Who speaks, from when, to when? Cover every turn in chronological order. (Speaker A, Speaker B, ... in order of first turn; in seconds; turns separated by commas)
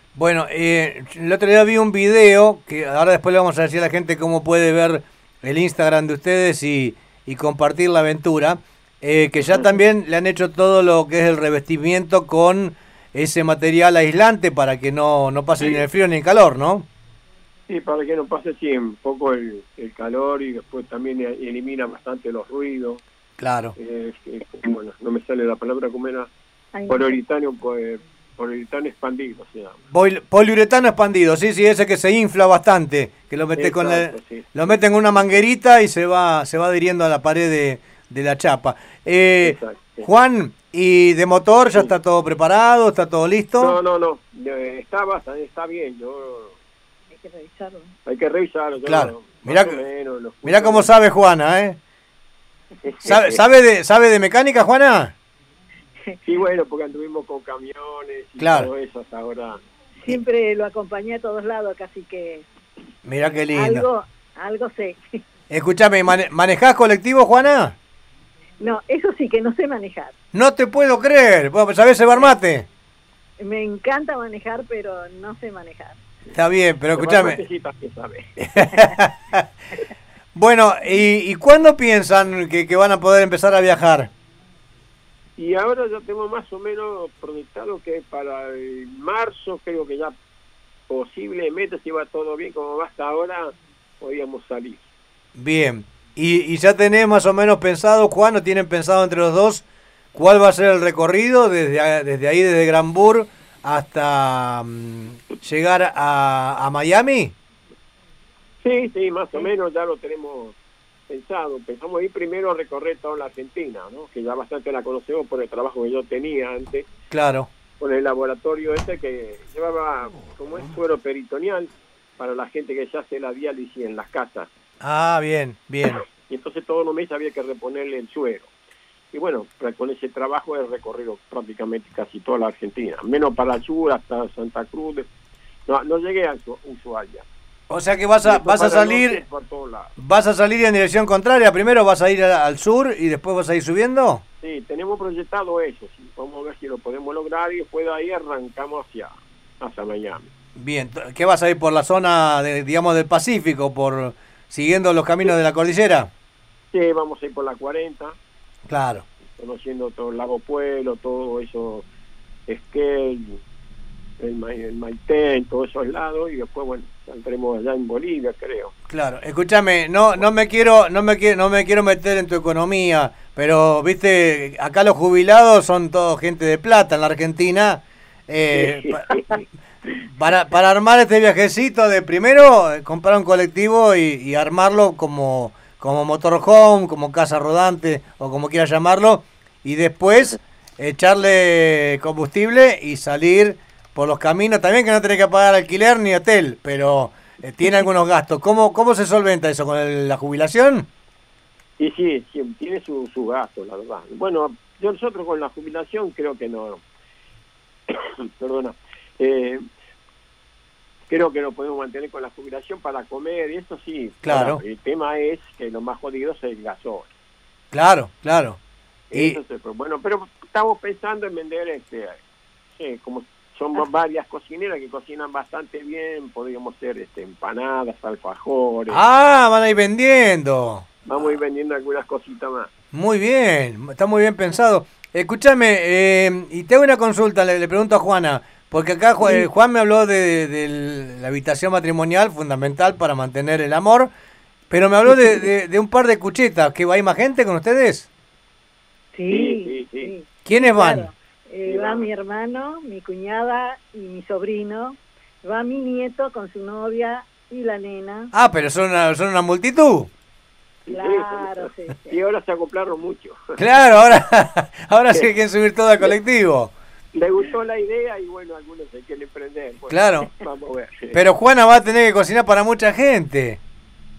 Speaker A: 0.2-16.9, Speaker B: 9.5-9.8, Speaker B: 17.7-23.0, Speaker A: 23.4-23.7, Speaker B: 23.8-26.3, Speaker C: 26.7-27.2, Speaker B: 26.9-29.8, Speaker A: 29.9-43.8, Speaker B: 33.6-35.4, Speaker B: 39.4-40.1, Speaker B: 43.6-46.6, Speaker C: 47.1-47.9, Speaker B: 48.1-50.9, Speaker A: 48.8-49.8, Speaker A: 50.4-51.8, Speaker B: 52.8-53.4, Speaker A: 53.0-55.1, Speaker B: 56.2-59.6, Speaker A: 58.4-58.7, Speaker C: 60.0-62.5, Speaker A: 63.0-63.9, Speaker C: 63.5-65.0, Speaker A: 65.5-67.8, Speaker C: 68.6-70.1, Speaker A: 70.3-72.7, Speaker C: 73.4-76.0, Speaker A: 76.3-77.4, Speaker B: 77.0-78.4, Speaker A: 78.4-79.4, Speaker A: 80.3-84.1, Speaker B: 85.4-90.2, Speaker B: 90.9-94.8, Speaker A: 95.4-107.3, Speaker B: 108.6-110.6, Speaker B: 111.1-116.9, Speaker A: 117.1-117.5, Speaker B: 117.8-124.5, Speaker A: 124.8-126.0, Speaker B: 126.2-128.5, Speaker B: 129.1-135.1, Speaker B: 135.7-137.3, Speaker A: 137.7-139.2, Speaker B: 138.2-139.9, Speaker A: 140.0-144.2, Speaker B: 144.4-150.3, Speaker A: 150.6-156.1, Speaker B: 156.7-158.2, Speaker A: 158.7-159.1, Speaker B: 159.4-161.9, Speaker B: 162.5-163.4, Speaker B: 164.2-168.7, Speaker A: 168.9-179.1, Speaker B: 178.6-179.4, Speaker A: 180.1-200.9, Speaker B: 201.8-206.8, Speaker B: 207.9-209.6, Speaker B: 211.1-217.1, Speaker A: 214.2-214.6, Speaker A: 217.7-218.6, Speaker B: 219.1-222.2, Speaker B: 222.8-229.0, Speaker A: 228.9-230.9, Speaker B: 231.1-232.7, Speaker A: 232.9-244.1, Speaker C: 239.2-239.5, Speaker A: 244.7-248.1, Speaker C: 249.1-258.3, Speaker B: 249.3-250.1, Speaker A: 250.4-251.1, Speaker B: 251.7-252.1, Speaker A: 258.3-260.1, Speaker B: 260.9-263.6, Speaker C: 260.9-262.2, Speaker A: 263.6-266.7, Speaker B: 267.1-271.3, Speaker A: 269.9-270.3, Speaker A: 271.1-273.6